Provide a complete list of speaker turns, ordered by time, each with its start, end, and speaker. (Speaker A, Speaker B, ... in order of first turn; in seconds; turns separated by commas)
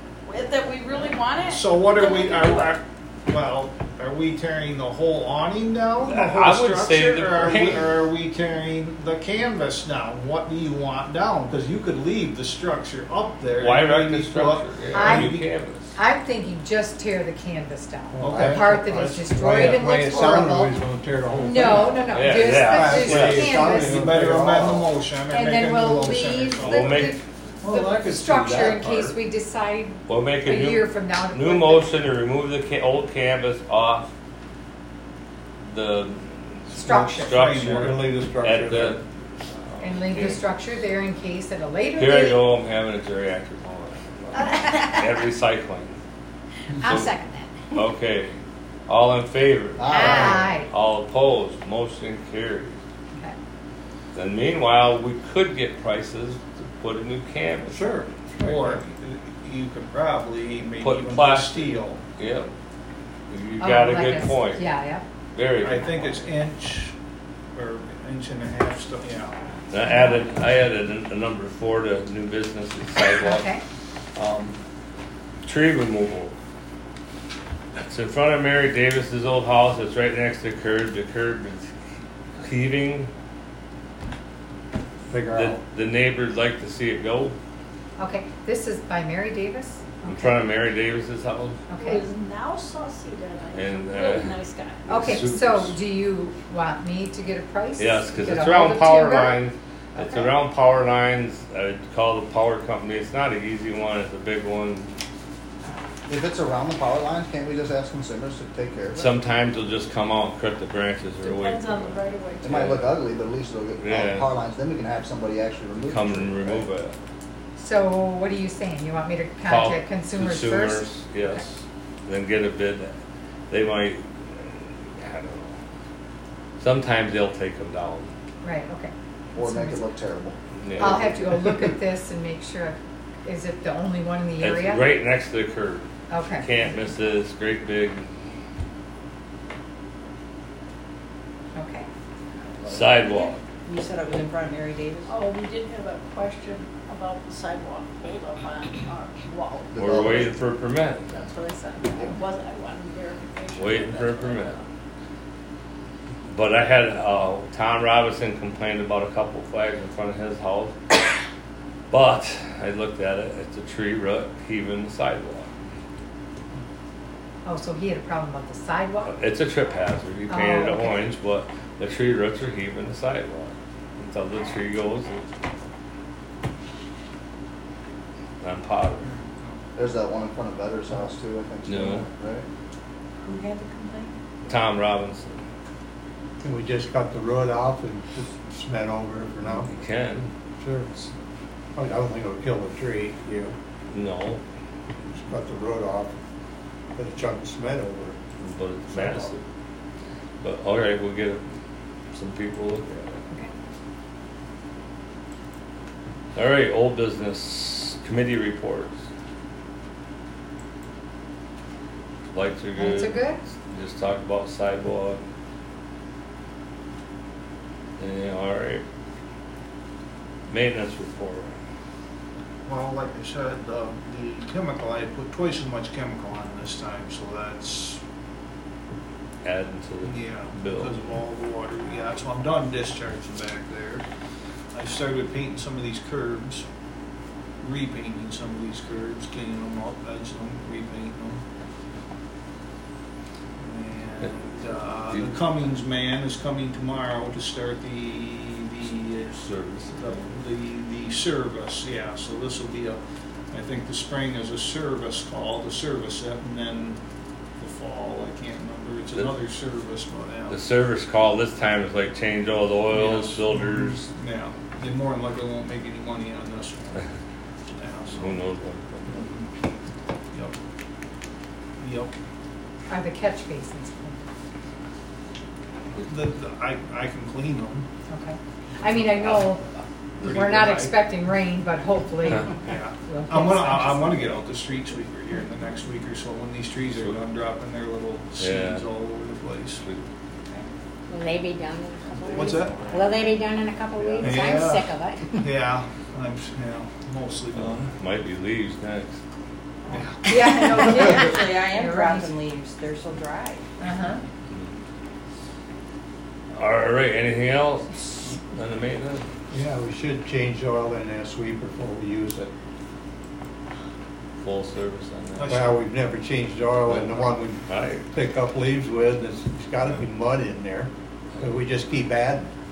Speaker A: 0.2-2.8, Speaker B: 1.4-15.5, Speaker C: 6.0-8.0, Speaker C: 13.6-15.9, Speaker D: 14.9-15.4, Speaker D: 15.9-20.8, Speaker E: 18.1-24.9, Speaker B: 18.2-18.7, Speaker B: 19.6-20.4, Speaker D: 21.4-24.2, Speaker C: 22.1-23.6, Speaker B: 23.6-29.1, Speaker D: 25.3-31.9, Speaker C: 26.6-27.2, Speaker C: 30.1-34.1, Speaker C: 35.7-40.4, Speaker D: 36.7-37.8, Speaker B: 36.9-38.1, Speaker E: 37.0-39.0, Speaker D: 39.8-42.5, Speaker C: 42.0-45.9, Speaker F: 44.4-45.2, Speaker F: 46.8-47.7, Speaker C: 46.8-47.1, Speaker C: 47.7-48.4, Speaker C: 48.9-52.8, Speaker G: 49.8-50.6, Speaker D: 49.9-50.7, Speaker C: 54.1-57.8, Speaker B: 57.7-62.0, Speaker C: 60.8-62.5, Speaker C: 63.3-64.6, Speaker D: 63.6-65.0, Speaker C: 65.3-66.2, Speaker B: 65.6-66.9, Speaker B: 67.5-69.4, Speaker C: 69.7-73.5, Speaker D: 73.2-73.6, Speaker C: 74.2-74.6, Speaker C: 75.4-76.3, Speaker C: 77.8-81.7, Speaker C: 82.4-83.1, Speaker E: 85.1-85.6, Speaker C: 85.3-87.3, Speaker D: 88.0-90.4, Speaker C: 90.1-91.6, Speaker D: 91.7-92.0, Speaker A: 91.8-95.0, Speaker C: 93.5-94.3, Speaker C: 94.9-95.8, Speaker D: 94.9-99.4, Speaker C: 97.8-104.9, Speaker D: 100.0-100.3, Speaker G: 106.1-109.1, Speaker C: 109.0-112.9, Speaker A: 111.2-112.8, Speaker G: 112.4-116.7, Speaker C: 113.8-114.3, Speaker C: 115.9-116.9, Speaker D: 117.6-120.8, Speaker C: 119.5-123.0, Speaker C: 123.5-125.6, Speaker C: 126.6-128.1, Speaker D: 128.4-129.8, Speaker G: 129.3-131.2, Speaker C: 130.6-131.2, Speaker D: 130.8-134.9, Speaker C: 134.4-135.9, Speaker D: 136.1-136.5, Speaker C: 136.4-138.1, Speaker D: 141.6-141.9, Speaker C: 142.7-143.4, Speaker H: 142.9-145.1, Speaker A: 145.1-150.3, Speaker G: 149.7-150.4, Speaker C: 149.8-151.1, Speaker A: 151.1-154.7, Speaker C: 153.6-154.6, Speaker C: 156.3-160.8, Speaker C: 161.9-165.5, Speaker D: 167.5-169.2, Speaker C: 169.1-175.3, Speaker D: 170.3-171.0, Speaker C: 178.4-179.1, Speaker B: 179.1-179.6, Speaker G: 179.8-182.5, Speaker C: 181.7-182.1, Speaker H: 183.2-184.2, Speaker C: 184.5-185.4, Speaker E: 186.4-189.7, Speaker C: 189.4-190.3, Speaker E: 190.6-190.9, Speaker E: 191.8-193.6, Speaker C: 193.9-194.4, Speaker E: 195.1-196.2, Speaker E: 197.0-198.2, Speaker C: 198.4-199.4, Speaker E: 198.9-199.3, Speaker C: 200.4-201.4, Speaker C: 202.1-203.2, Speaker C: 206.3-209.0, Speaker C: 212.3-215.2, Speaker D: 212.8-213.4, Speaker C: 218.0-218.8, Speaker C: 220.5-221.6, Speaker B: 222.7-228.0, Speaker C: 229.4-231.0, Speaker B: 230.0-234.0, Speaker B: 234.7-236.7, Speaker B: 237.6-241.4, Speaker B: 243.6-253.0, Speaker C: 249.3-250.4, Speaker B: 253.5-257.0, Speaker B: 257.6-260.6, Speaker C: 260.5-264.1, Speaker B: 262.9-267.0, Speaker B: 267.7-268.4, Speaker C: 268.1-269.2, Speaker B: 269.1-269.5, Speaker B: 271.8-272.1, Speaker D: 272.9-274.2, Speaker B: 276.0-277.9, Speaker D: 278.1-279.6, Speaker B: 280.2-280.9, Speaker D: 280.2-284.4, Speaker B: 282.6-289.8, Speaker C: 286.9-287.2, Speaker C: 288.4-288.9, Speaker C: 289.8-290.1, Speaker F: 291.1-295.4, Speaker B: 292.3-292.8, Speaker B: 294.2-297.9, Speaker C: 297.6-299.2, Speaker B: 299.9-300.3, Speaker D: 300.3-302.3, Speaker H: 300.3-303.7, Speaker D: 303.8-304.2, Speaker C: 306.6-309.3, Speaker E: 309.5-312.5, Speaker C: 314.4-315.5, Speaker B: 315.4-315.8, Speaker E: 315.5-322.5, Speaker C: 317.7-318.0